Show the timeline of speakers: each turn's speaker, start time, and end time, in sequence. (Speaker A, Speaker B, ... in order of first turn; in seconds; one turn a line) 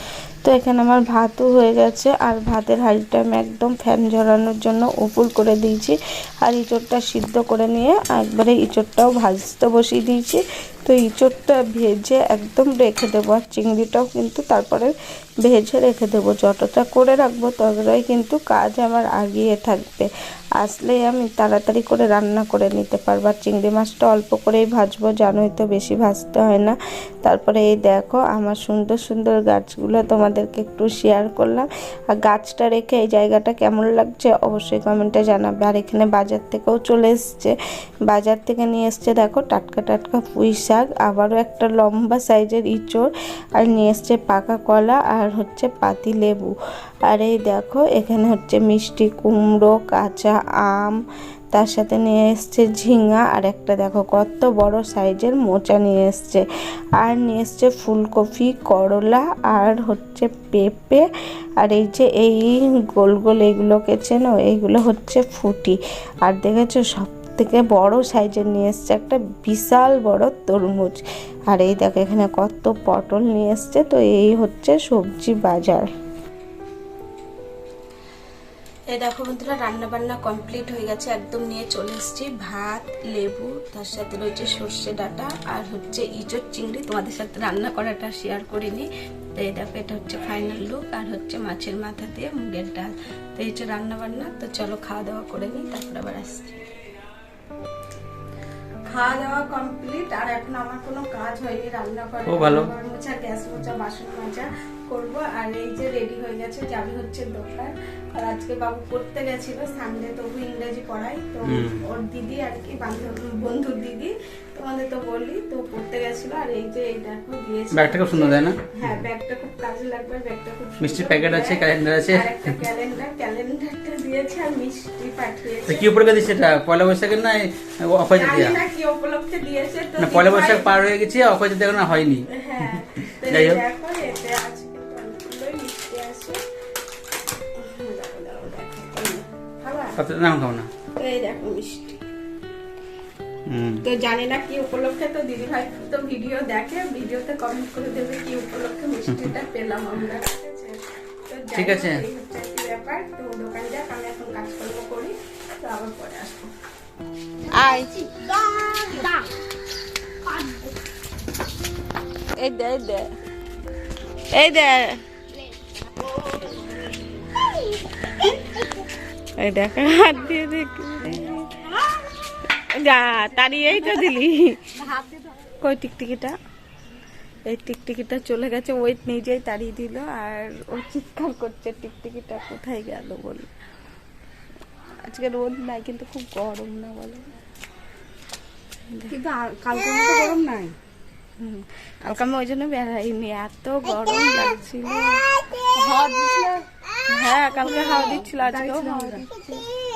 Speaker A: 0.4-37.5
Speaker A: 38.1-46.5
Speaker A: 47.1-51.0
Speaker A: 51.5-56.4
Speaker A: 57.0-61.1
Speaker A: 61.6-75.9
Speaker A: 78.9-96.7
Speaker A: 98.8-126.1
Speaker B: 102.2-102.7
Speaker B: 111.4-111.8
Speaker B: 117.7-119.0
Speaker B: 120.8-122.5
Speaker B: 125.7-128.6
Speaker A: 128.1-130.8
Speaker B: 130.0-133.6
Speaker A: 132.2-136.4
Speaker A: 137.5-140.0
Speaker B: 140.0-140.7
Speaker A: 140.9-142.0
Speaker B: 143.5-143.8
Speaker A: 143.8-156.5
Speaker B: 151.5-152.0
Speaker A: 157.5-159.2
Speaker A: 162.3-163.1
Speaker A: 164.3-165.0
Speaker C: 166.1-166.5
Speaker A: 169.4-171.7
Speaker A: 172.5-174.8
Speaker C: 174.7-175.4
Speaker A: 175.6-176.3
Speaker A: 177.4-183.5
Speaker A: 185.0-187.2
Speaker C: 189.1-190.8
Speaker A: 191.4-195.2
Speaker C: 195.7-196.7
Speaker A: 197.1-199.5
Speaker C: 197.5-199.6